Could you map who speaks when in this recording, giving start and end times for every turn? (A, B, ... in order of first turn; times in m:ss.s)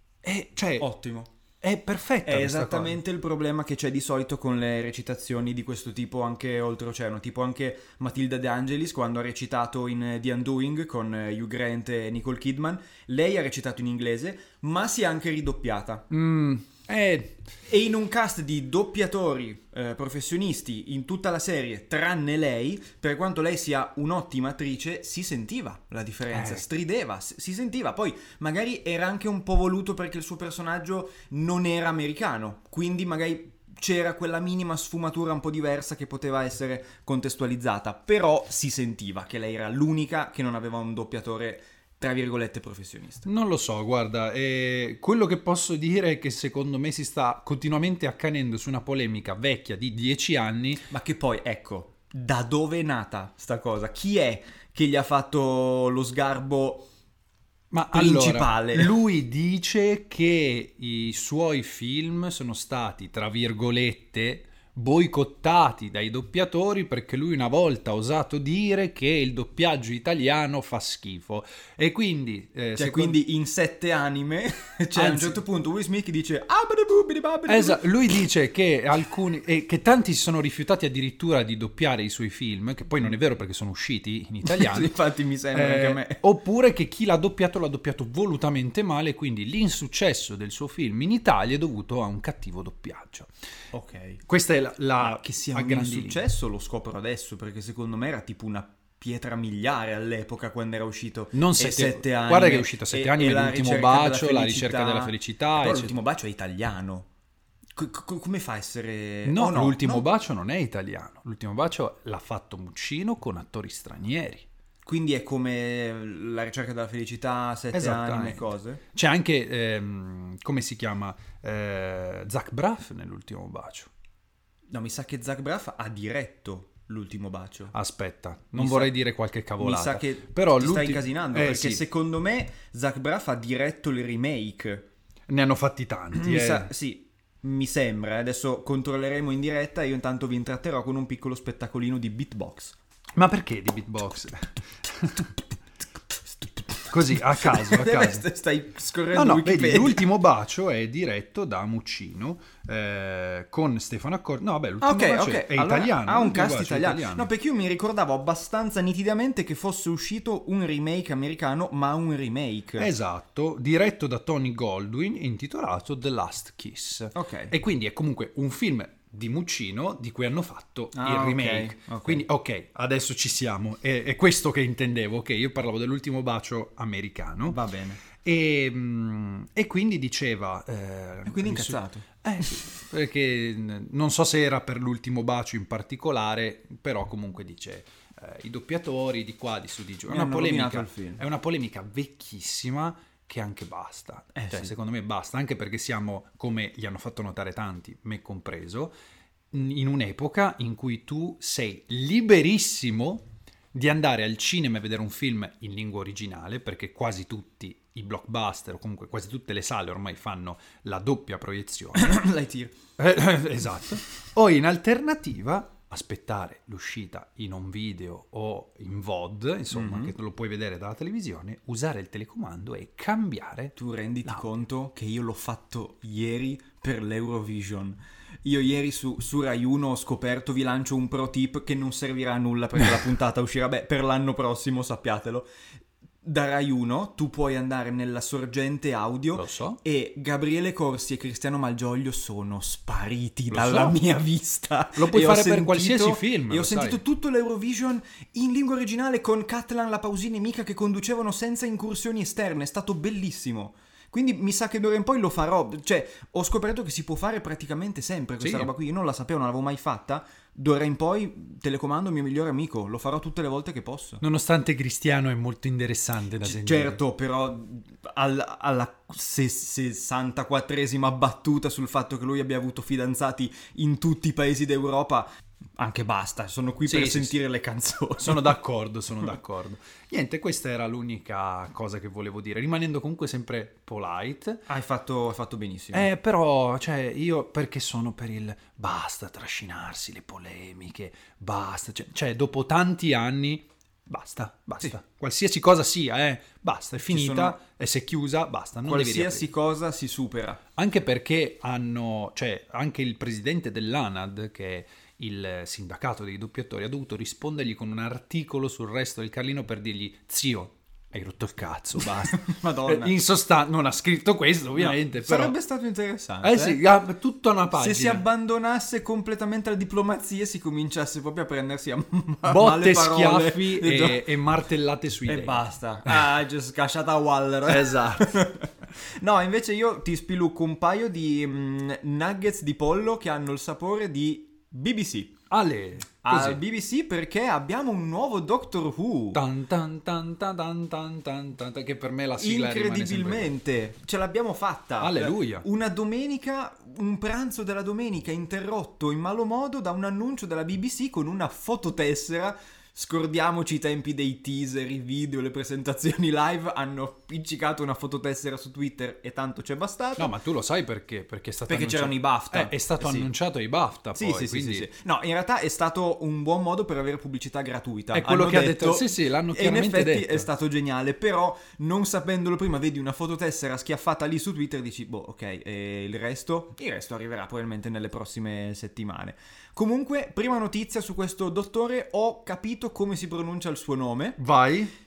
0:00.2-0:00.9 A
0:00.8-0:01.3 B
0:01.6-0:03.0 A
0:02.2-0:16.1 B
0:16.1-0:17.5 A
0:17.7-0:43.3 B
0:26.3-0:26.6 A
0:43.2-0:50.9 A
0:50.9-0:56.9 B
0:57.7-1:13.2 A
0:57.9-0:58.9 B
1:12.8-1:17.8 B
1:15.0-1:15.4 A
1:17.5-1:25.0 A
1:24.5-1:26.2 B
1:25.5-1:33.3 A
1:33.7-1:34.2 B
1:34.3-1:36.2 A
1:35.0-1:47.1 B
1:41.3-1:46.0 A
1:47.8-1:50.1 B
1:49.2-1:54.5 A
1:54.8-1:58.8 B
1:57.7-2:03.9 A
2:04.7-2:07.7 B
2:07.7-2:11.8 A
2:08.6-2:08.9 B
2:09.6-2:14.9 B
2:15.3-2:16.7 A
2:16.1-2:22.8 B
2:23.2-2:25.3 A
2:26.7-2:30.1 B
2:26.9-2:28.3 A
2:29.1-2:37.3 A
2:34.8-2:42.9 B
2:42.8-2:57.6 A
2:47.1-2:47.5 B
2:50.9-2:52.2 B
2:57.5-2:58.0 B
2:58.1-3:18.9 A
3:01.3-3:02.0 B
3:10.1-3:11.2 B
3:14.4-3:14.7 B
3:19.5-3:32.2 A
3:32.0-3:32.8 B
3:33.0-3:43.7 A
3:39.7-3:40.1 B
3:43.8-3:55.5 B
3:56.2-4:24.2 B
3:59.4-3:59.8 A
4:03.5-4:04.0 A
4:05.0-4:07.0 A
4:18.4-4:18.7 A
4:24.2-4:27.0 A
4:26.4-4:38.5 B
4:36.9-4:37.4 A
4:38.2-4:44.6 A
4:44.7-4:46.1 B
4:45.9-4:59.5 A
4:57.1-4:57.6 B
4:58.8-5:00.6 B
5:00.8-5:15.6 A
5:12.3-5:13.1 B
5:14.8-5:16.8 B
5:16.4-5:18.2 A
5:17.7-5:24.2 B
5:22.5-5:26.3 A
5:25.3-5:35.4 B
5:27.7-5:28.4 A
5:35.5-5:36.6 A
5:36.2-5:39.4 B
5:39.3-5:43.6 A
5:42.4-6:00.3 B
5:45.0-5:45.7 A
6:00.2-6:04.9 A
6:01.7-6:03.3 B
6:04.1-6:24.4 B
6:08.1-6:10.5 A
6:24.4-6:24.9 A